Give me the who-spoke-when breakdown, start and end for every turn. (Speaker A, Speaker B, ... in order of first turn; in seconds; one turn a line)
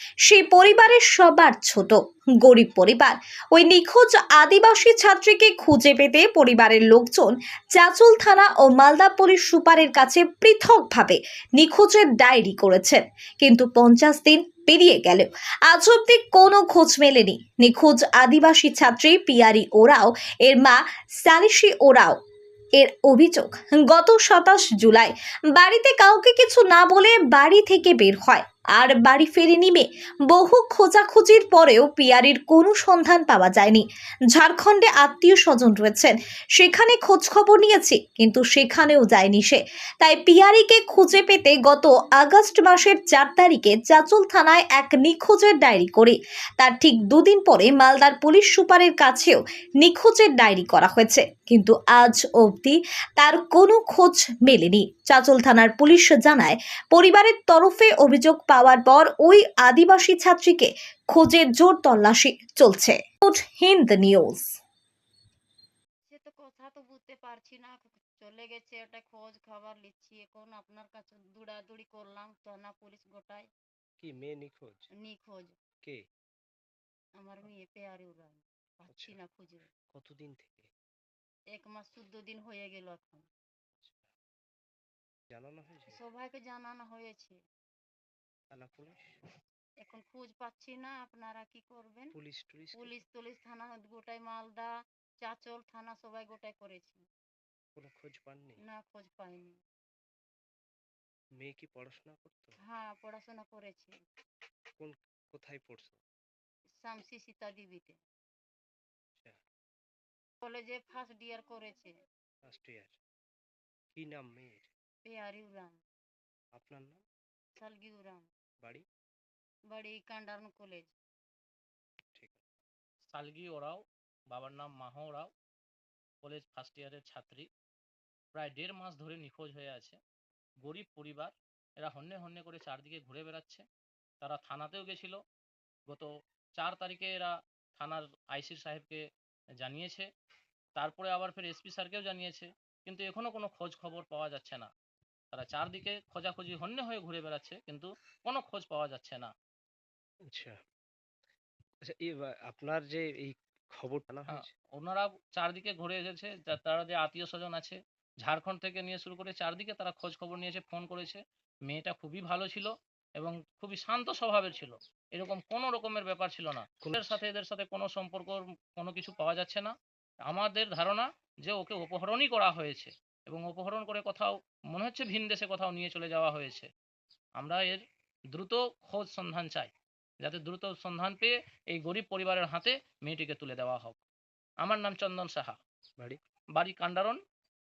Speaker A: 0.3-22.2
Speaker A: 22.8-64.5
Speaker B: 66.1-73.5
Speaker C: 74.0-74.9
Speaker B: 75.0-75.6
Speaker B: 77.2-79.7
Speaker C: 78.9-79.2
Speaker C: 79.9-80.7
Speaker B: 81.5-83.2
Speaker C: 83.8-84.1
Speaker C: 85.3-86.0
Speaker B: 85.9-87.4
Speaker C: 88.5-89.2
Speaker B: 89.8-92.1
Speaker C: 92.1-93.0
Speaker B: 92.8-97.0
Speaker C: 97.8-98.6
Speaker B: 98.7-99.5
Speaker C: 101.4-102.6
Speaker B: 102.7-103.9
Speaker C: 104.8-106.0
Speaker B: 106.8-108.0
Speaker B: 110.4-111.9
Speaker C: 112.4-113.0
Speaker C: 113.9-114.7
Speaker B: 115.0-115.8
Speaker C: 116.5-117.0
Speaker B: 117.6-118.3
Speaker B: 119.7-120.9
Speaker C: 122.1-122.4
Speaker D: 123.1-123.8
Speaker D: 124.3-125.3
Speaker D: 126.2-127.5
Speaker D: 128.4-130.0
Speaker D: 130.6-133.6
Speaker D: 134.2-135.2
Speaker D: 136.6-139.0
Speaker D: 139.6-140.1
Speaker D: 140.8-144.7
Speaker D: 145.3-149.3
Speaker C: 150.3-150.6
Speaker C: 151.8-154.5
Speaker D: 154.3-169.7
Speaker C: 166.8-167.2
Speaker D: 170.3-176.7
Speaker D: 177.4-177.8
Speaker D: 178.3-179.7
Speaker D: 180.2-184.0
Speaker D: 184.6-185.6
Speaker D: 186.6-187.2